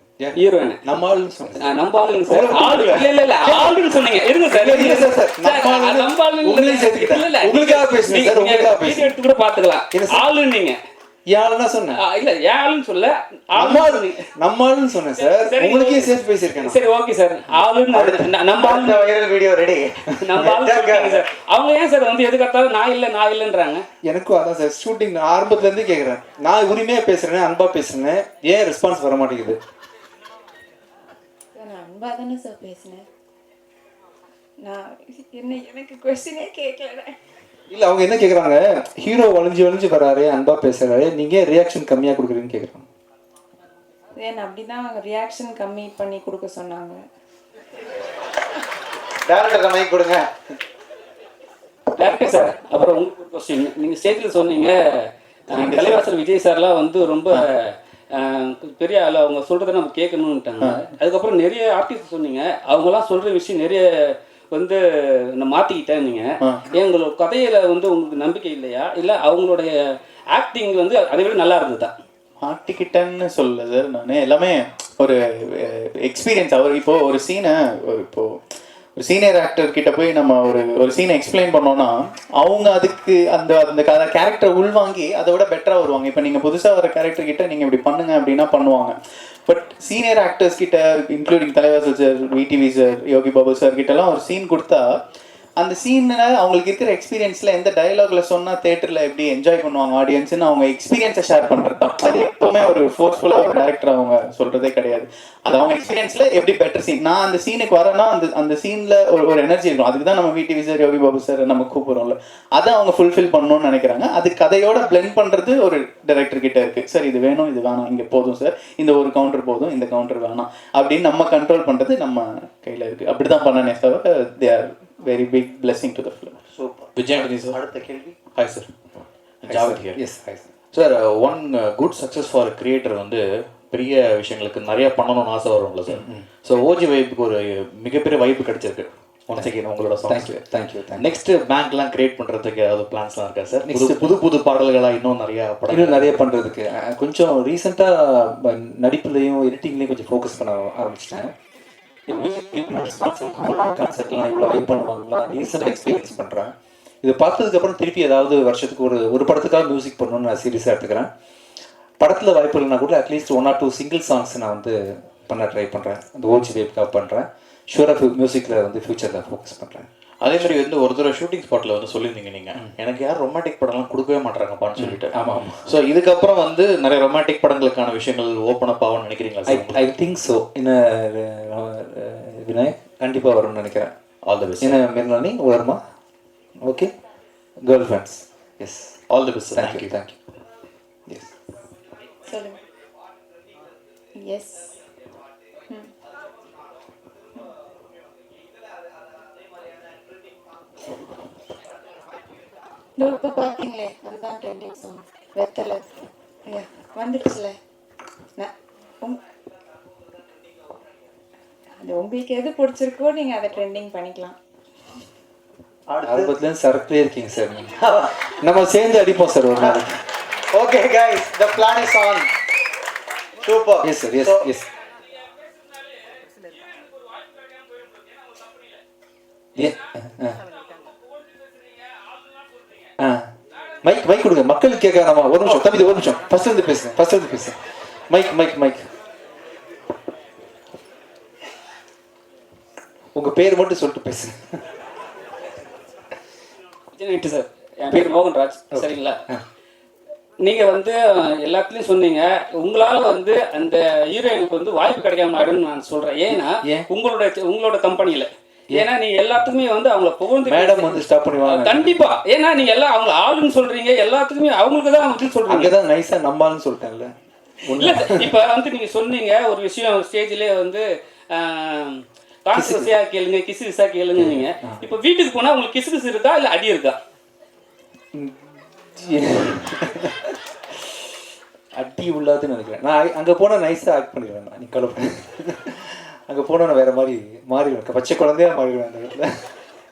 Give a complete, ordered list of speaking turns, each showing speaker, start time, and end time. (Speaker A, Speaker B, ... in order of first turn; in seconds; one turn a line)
Speaker A: 0.2-1.7
Speaker B: 0.4-0.8
Speaker B: 1.6-10.8
Speaker A: 2.2-3.8
Speaker A: 4.5-9.1
Speaker A: 9.9-10.2
Speaker A: 11.3-12.0
Speaker B: 12.0-14.2
Speaker A: 13.6-16.8
Speaker B: 15.2-19.1
Speaker C: 17.9-21.2
Speaker B: 20.2-23.9
Speaker A: 24.1-29.6
Speaker D: 31.6-33.1
Speaker D: 34.6-37.1
Speaker A: 37.7-42.9
Speaker D: 44.2-47.0
Speaker C: 49.3-50.3
Speaker B: 52.0-63.8
Speaker E: 55.5-56.0
Speaker B: 64.5-64.8
Speaker B: 65.4-69.7
Speaker B: 70.3-71.9
Speaker E: 72.4-78.4
Speaker E: 79.0-89.0
Speaker E: 89.5-94.9
Speaker E: 95.6-126.4
Speaker C: 126.5-128.2
Speaker F: 127.0-127.6
Speaker F: 128.3-128.7
Speaker F: 129.4-130.0
Speaker A: 129.4-130.5
Speaker F: 130.7-140.3
Speaker A: 135.9-136.2
Speaker A: 140.1-141.0
Speaker F: 141.0-146.2
Speaker A: 143.7-144.2
Speaker A: 145.7-151.3
Speaker A: 152.1-156.5
Speaker A: 157.0-161.1
Speaker A: 162.0-169.9
Speaker F: 170.2-175.1
Speaker A: 174.8-175.6
Speaker F: 175.7-179.8
Speaker A: 179.5-183.9
Speaker F: 184.2-184.8
Speaker A: 184.6-185.8
Speaker A: 186.6-186.9
Speaker A: 187.6-189.0
Speaker F: 189.1-189.9
Speaker A: 189.5-190.2
Speaker A: 191.1-191.3
Speaker D: 192.3-192.6
Speaker D: 194.2-194.7
Speaker D: 203.0-205.8
Speaker D: 206.5-207.6
Speaker D: 211.8-214.4
Speaker C: 215.9-216.3
Speaker A: 216.0-219.9
Speaker C: 217.8-218.2
Speaker C: 219.6-219.9
Speaker C: 220.5-222.3
Speaker C: 223.4-224.5
Speaker A: 223.8-224.7
Speaker B: 225.0-228.8
Speaker A: 229.6-230.4
Speaker B: 230.6-232.9
Speaker A: 233.0-233.3
Speaker A: 233.8-237.6
Speaker A: 238.1-238.9
Speaker A: 243.2-244.6
Speaker B: 246.9-249.2
Speaker A: 248.7-249.4
Speaker B: 250.4-265.8
Speaker A: 256.3-256.9
Speaker A: 260.4-261.9
Speaker A: 265.5-267.1
Speaker A: 267.6-268.3
Speaker B: 267.7-277.0
Speaker A: 272.5-272.9
Speaker A: 274.2-274.8
Speaker A: 278.1-280.4
Speaker A: 281.8-289.3